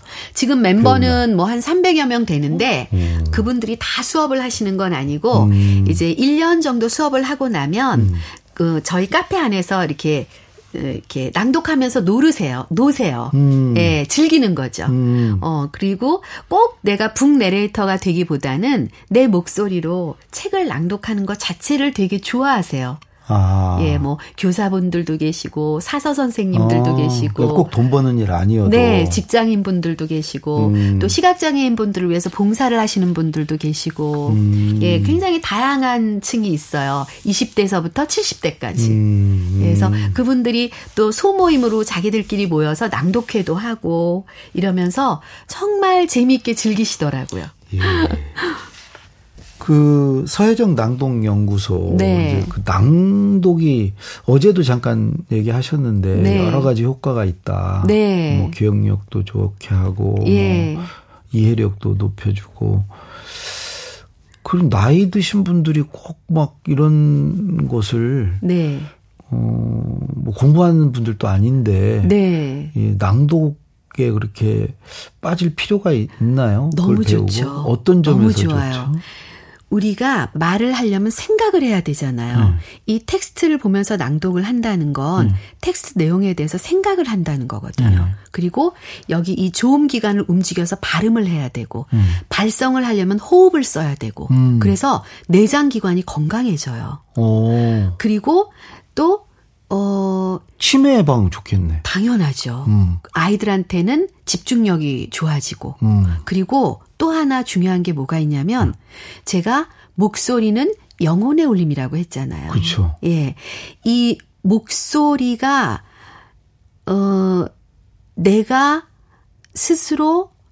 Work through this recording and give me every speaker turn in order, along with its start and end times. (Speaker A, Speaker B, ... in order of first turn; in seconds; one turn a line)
Speaker A: 0.3-23.1
Speaker B: 0.8-1.2
Speaker B: 2.9-3.5
Speaker B: 5.3-6.0
Speaker B: 8.0-8.2
Speaker B: 13.3-14.0
Speaker B: 14.9-15.4
Speaker B: 23.3-24.1
Speaker A: 23.8-27.7
Speaker B: 26.5-29.2
Speaker A: 28.6-39.0
Speaker B: 30.6-31.2
Speaker B: 34.3-35.2
Speaker B: 38.8-40.2
Speaker A: 39.6-48.6
Speaker B: 47.7-48.4
Speaker B: 49.6-60.7
Speaker A: 51.9-52.5
Speaker A: 56.1-56.7
Speaker A: 57.8-58.6
Speaker A: 60.2-60.9
Speaker B: 61.3-63.8
Speaker B: 64.4-68.4
Speaker A: 68.4-68.9
Speaker B: 69.3-72.2
Speaker A: 72.0-72.7
Speaker B: 72.7-79.0
Speaker A: 76.7-78.9
Speaker A: 79.7-97.0
Speaker B: 82.3-82.6
Speaker B: 87.8-88.1
Speaker B: 91.9-92.2
Speaker B: 94.3-94.8
Speaker B: 97.2-98.0
Speaker A: 98.0-100.4
Speaker B: 100.6-101.8
Speaker A: 101.8-115.8
Speaker B: 102.7-103.0
Speaker B: 105.8-106.2
Speaker B: 112.5-113.0
Speaker A: 116.9-117.5
Speaker A: 118.2-118.9
Speaker A: 119.5-120.3